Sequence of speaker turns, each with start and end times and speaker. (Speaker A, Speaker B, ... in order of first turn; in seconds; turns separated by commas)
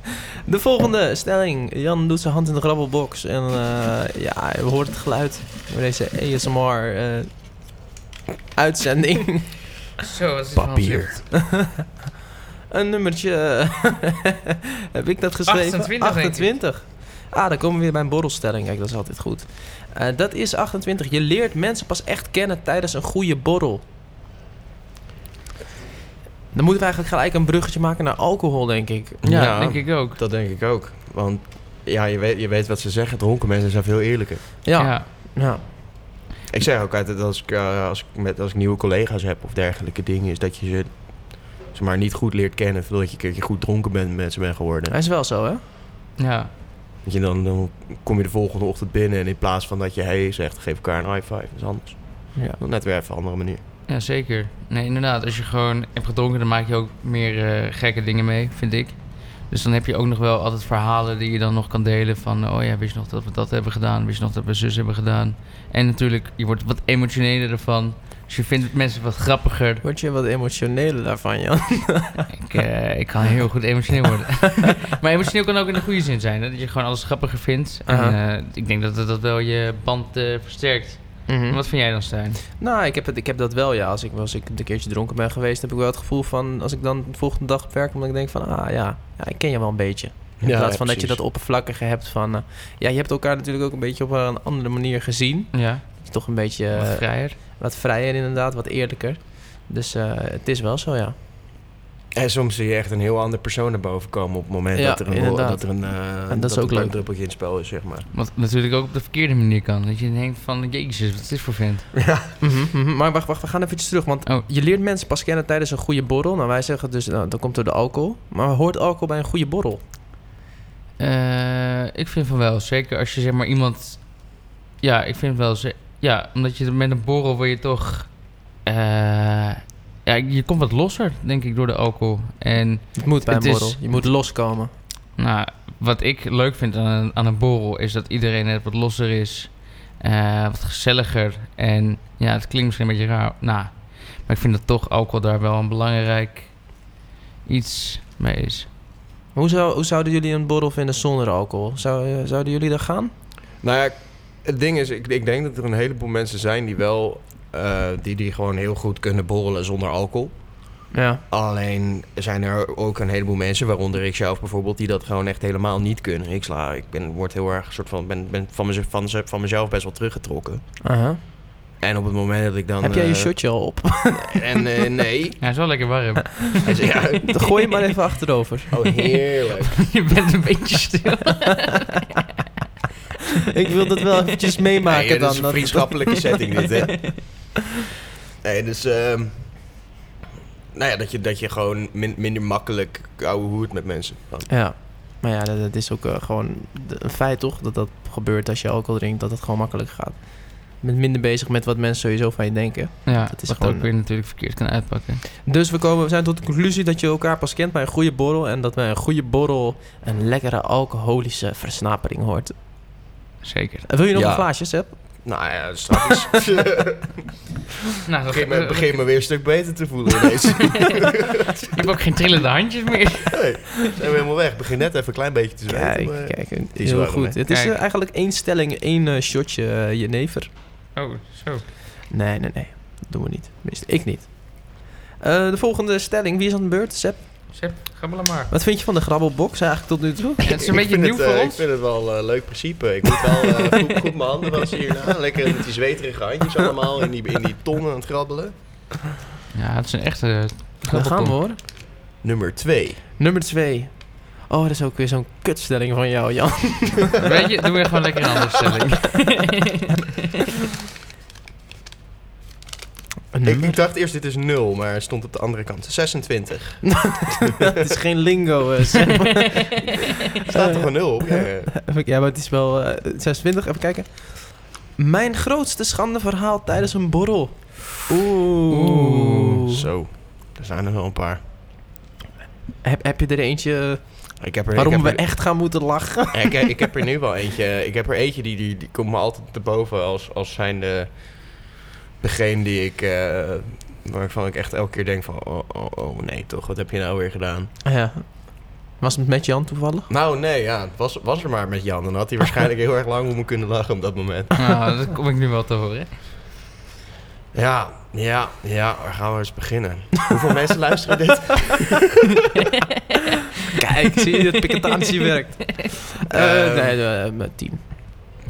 Speaker A: 0.5-7.3, Speaker A: 8.5-9.5, Speaker B: 10.0-11.2, Speaker C: 10.5-11.2, Speaker A: 11.3-11.8, Speaker A: 12.7-23.8, Speaker B: 15.5-16.6, Speaker A: 26.5-29.2, Speaker C: 29.2-34.5, Speaker B: 29.2-30.2, Speaker A: 34.6-35.6, Speaker B: 34.8-35.1, Speaker C: 36.5-44.9, Speaker A: 44.9-45.6, Speaker B: 46.2-46.5, Speaker C: 47.0-53.6, Speaker B: 53.9-69.8, Speaker A: 69.8-72.3, Speaker B: 72.3-82.4, Speaker A: 77.8-78.2, Speaker A: 81.3-81.6, Speaker A: 82.6-101.2, Speaker C: 90.4-91.2, Speaker B: 95.5-96.1, Speaker B: 96.7-97.4, Speaker C: 102.1-108.1, Speaker A: 104.7-106.9, Speaker B: 108.1-111.9, Speaker C: 112.0-112.3, Speaker A: 112.4-119.8, Speaker B: 121.0-133.9, Speaker A: 132.9-134.7, Speaker B: 135.2-146.9, Speaker B: 147.4-148.7, Speaker A: 149.3-153.1, Speaker C: 153.6-170.7, Speaker A: 160.9-161.2, Speaker A: 170.8-171.2, Speaker C: 171.8-173.4, Speaker A: 172.8-174.6, Speaker C: 174.1-175.4, Speaker B: 175.4-176.7, Speaker C: 176.6-177.4, Speaker A: 177.2-178.7, Speaker C: 178.7-179.9, Speaker B: 179.7-182.1, Speaker A: 183.5-186.3, Speaker C: 184.8-187.3, Speaker C: 188.4-189.8, Speaker C: 190.7-194.5, Speaker A: 194.5-203.9, Speaker B: 203.1-205.2, Speaker A: 205.4-212.5, Speaker B: 213.4-213.9, Speaker A: 213.9-215.2, Speaker C: 214.1-217.2, Speaker B: 218.0-219.3, Speaker C: 218.3-221.7, Speaker B: 221.7-223.6, Speaker C: 223.3-227.4, Speaker A: 225.7-230.5, Speaker B: 227.5-227.8, Speaker B: 230.9-231.7, Speaker A: 232.1-237.6, Speaker B: 237.5-238.5, Speaker A: 238.5-240.4, Speaker B: 240.4-241.6, Speaker C: 240.5-248.5, Speaker B: 249.5-251.4, Speaker A: 250.9-251.6, Speaker C: 252.2-253.0, Speaker A: 253.2-257.2, Speaker B: 257.2-259.6, Speaker A: 263.3-263.7, Speaker C: 263.4-267.2, Speaker A: 266.8-279.7, Speaker C: 270.4-271.7, Speaker B: 278.7-279.6, Speaker C: 279.7-281.4, Speaker A: 282.8-286.7, Speaker C: 284.4-285.3, Speaker C: 286.3-297.7, Speaker A: 297.8-300.1, Speaker C: 300.1-304.6, Speaker B: 304.6-306.1, Speaker C: 307.5-312.2, Speaker A: 313.8-318.0, Speaker C: 316.3-317.0